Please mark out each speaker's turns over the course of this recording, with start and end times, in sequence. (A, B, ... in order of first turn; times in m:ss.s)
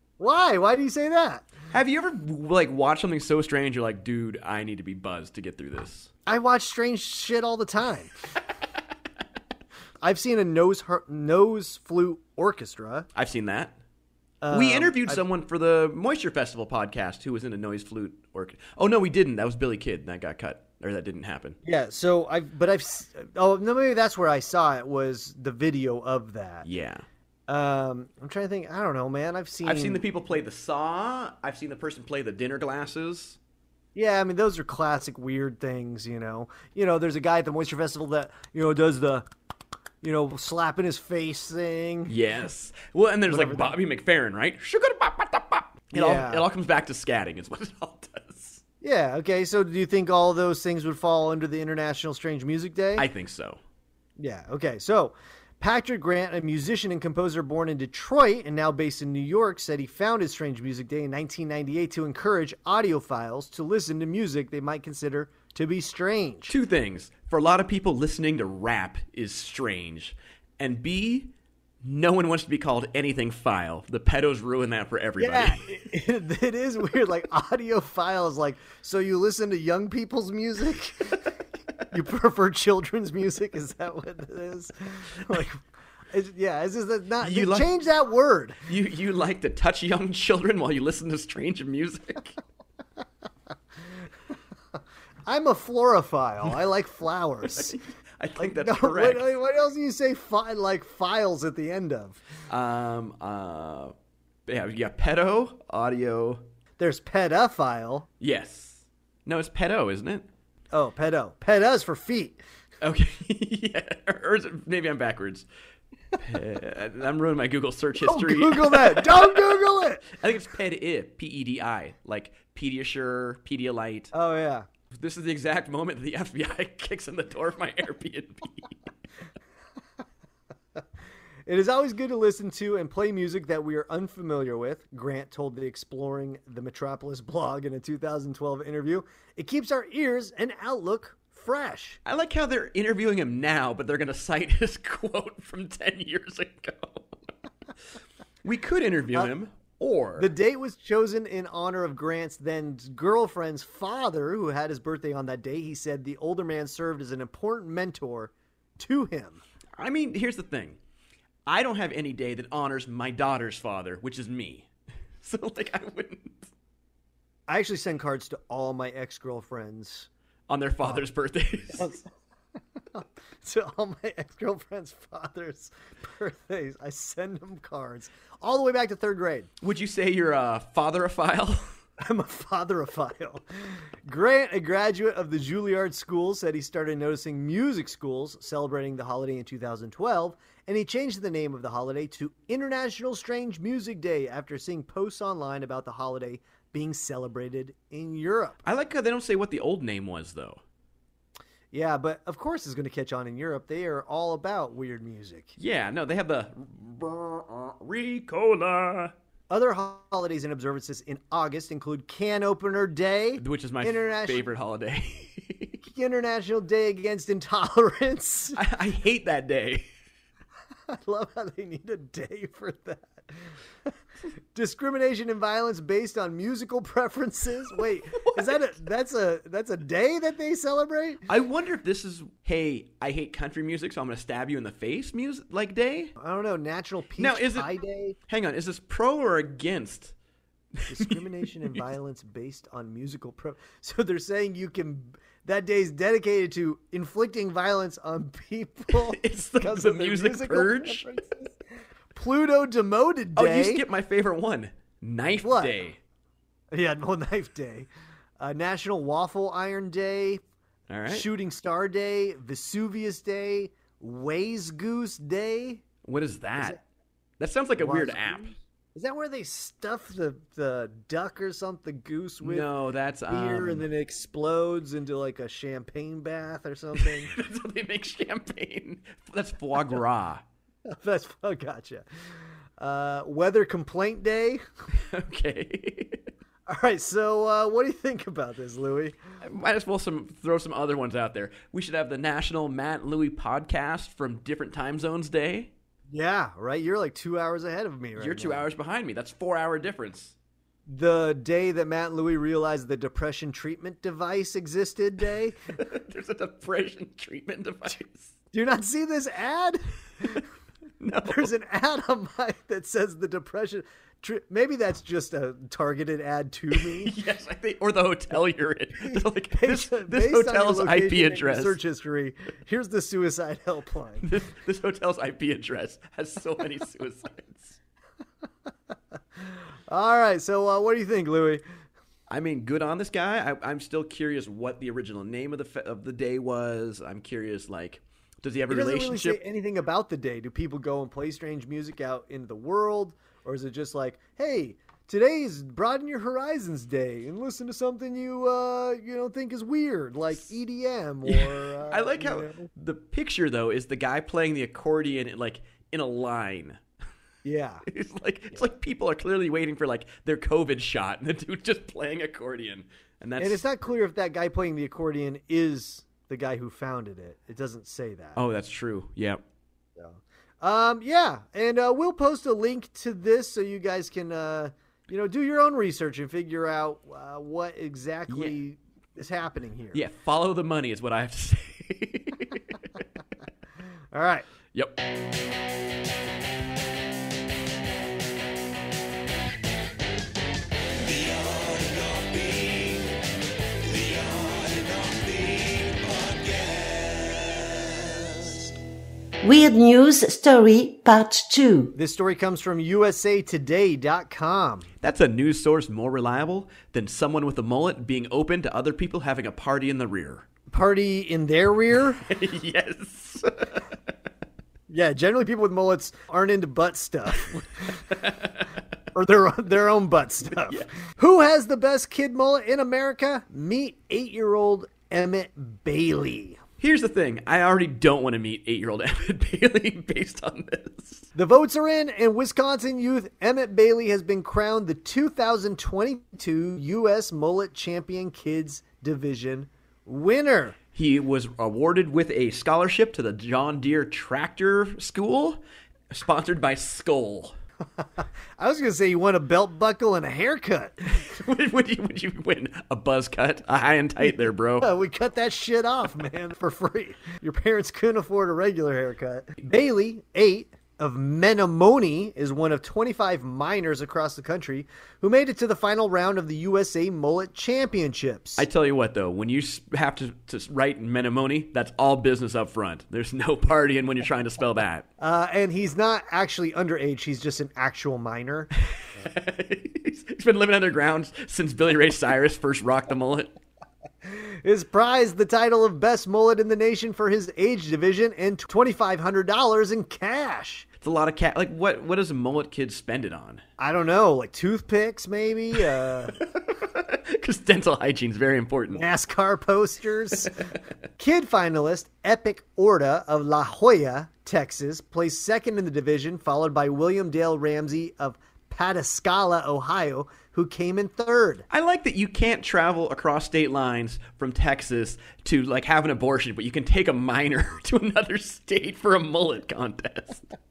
0:00.2-0:01.5 A
0:01.7-0:06.1 B
0:06.2-0:08.1 A
0:10.0-0:13.1 A
0:13.1-0:13.7 B
0:14.4-0:15.2 A
0:14.5-0:21.6 B
0:21.6-0:26.6 A
0:26.6-0:27.0 B
0:27.5-0:30.0 A
0:29.6-0:33.4 B
0:33.9-0:39.3 A
0:40.0-0:42.1 A
0:42.1-0:48.6 B
0:43.3-0:43.8 A
0:45.9-0:46.4 A
0:48.8-0:53.1 A
0:53.0-0:53.6 B
0:54.2-1:06.5 A
1:06.5-1:11.3 B
1:11.8-1:15.7 B
1:15.2-1:21.2 A
1:21.9-1:28.6 A
1:27.2-1:27.7 B
1:28.7-1:32.3 B
1:35.2-1:37.8 A
1:37.4-1:39.3 B
1:38.4-1:42.2 A
1:42.5-1:43.9 B
1:44.5-1:46.4 B
1:46.8-1:48.1 A
1:48.2-1:50.2 B
1:50.7-1:52.4 A
1:52.8-1:55.5 B
1:56.2-2:04.1 B
1:58.0-2:00.1 A
2:04.1-2:04.7 A
2:04.9-2:08.8 B
2:11.4-2:22.0 A
2:22.0-2:27.2 B
2:28.4-2:30.3 B
2:30.2-2:39.4 A
2:39.8-2:40.8 B
2:41.4-2:44.7 B
2:45.2-2:46.5 B
2:47.5-2:50.1 A
2:50.5-2:51.9 B
2:51.7-2:52.1 A
2:52.9-2:59.5 A
2:59.6-3:01.6 B
3:02.0-3:03.4 A
3:04.0-3:18.6 A
3:18.6-3:20.6 B
3:21.7-3:25.5 A
3:25.6-3:29.1 B
3:29.5-3:34.5 A
3:33.4-3:35.8 B
3:35.8-3:38.6 A
3:38.5-3:39.8 B
3:40.9-3:43.3 A
3:44.5-3:51.2 A
3:48.2-3:48.5 B
3:51.3-3:56.1 B
3:56.2-3:58.2 A
3:57.2-3:57.7 B
3:58.3-4:00.1 B
4:00.8-4:01.9 B
4:00.9-4:11.5 A
4:08.9-4:11.1 B
4:12.1-4:13.8 A
4:13.4-4:16.0 B
4:15.4-4:15.8 A
4:16.7-4:20.4 A
4:20.9-4:21.3 B
4:21.1-4:25.8 A
4:26.0-4:26.8 B
4:27.4-4:28.5 B
4:27.8-4:32.7 A
4:32.4-4:33.8 B
4:33.3-4:37.3 A
4:37.0-4:40.4 B
4:40.8-4:42.0 A
4:42.8-4:44.6 A
4:44.9-4:46.2 B
4:46.7-4:49.2 A
4:49.4-4:55.7 B
4:56.1-4:58.6 A
4:58.2-5:00.3 B
5:00.9-5:05.6 A
5:05.8-5:08.3 B
5:08.5-5:10.4 A
5:11.0-5:11.5 B
5:11.2-5:17.1 A
5:16.7-5:21.8 B
5:19.1-5:24.2 A
5:24.2-5:27.8 B
5:29.4-5:31.6 A
5:32.3-5:39.4 B
5:38.7-5:52.7 A
5:51.2-5:56.8 B
5:57.4-5:57.8 A
5:57.9-6:03.6 B
6:03.4-6:08.4 A
6:08.4-6:09.4 B
6:10.0-6:20.0 A
6:18.3-6:18.5 B
6:19.9-6:22.8 B
6:24.1-6:24.5 A
6:24.7-6:25.0 B
6:39.4-6:41.9 C
6:41.9-6:44.9 A
6:45.0-6:50.4 B
6:50.7-6:52.2 A
6:52.2-6:53.8 B
6:54.9-6:58.0 A
6:58.1-6:58.7 B
6:59.1-7:06.6 A
7:06.8-7:11.2 B
7:11.3-7:20.8 A
7:20.9-7:27.5 B
7:28.0-7:31.2 A
7:31.1-7:34.9 B
7:34.2-7:48.6 A
7:48.6-7:55.0 B
7:55.2-7:58.7 A
7:59.0-8:03.5 B
8:04.2-8:10.8 A
8:11.0-8:13.6 B
8:13.8-8:16.4 A
8:16.5-8:19.0 B
8:18.9-8:20.5 A
8:21.2-8:31.6 A
8:31.7-8:40.5 B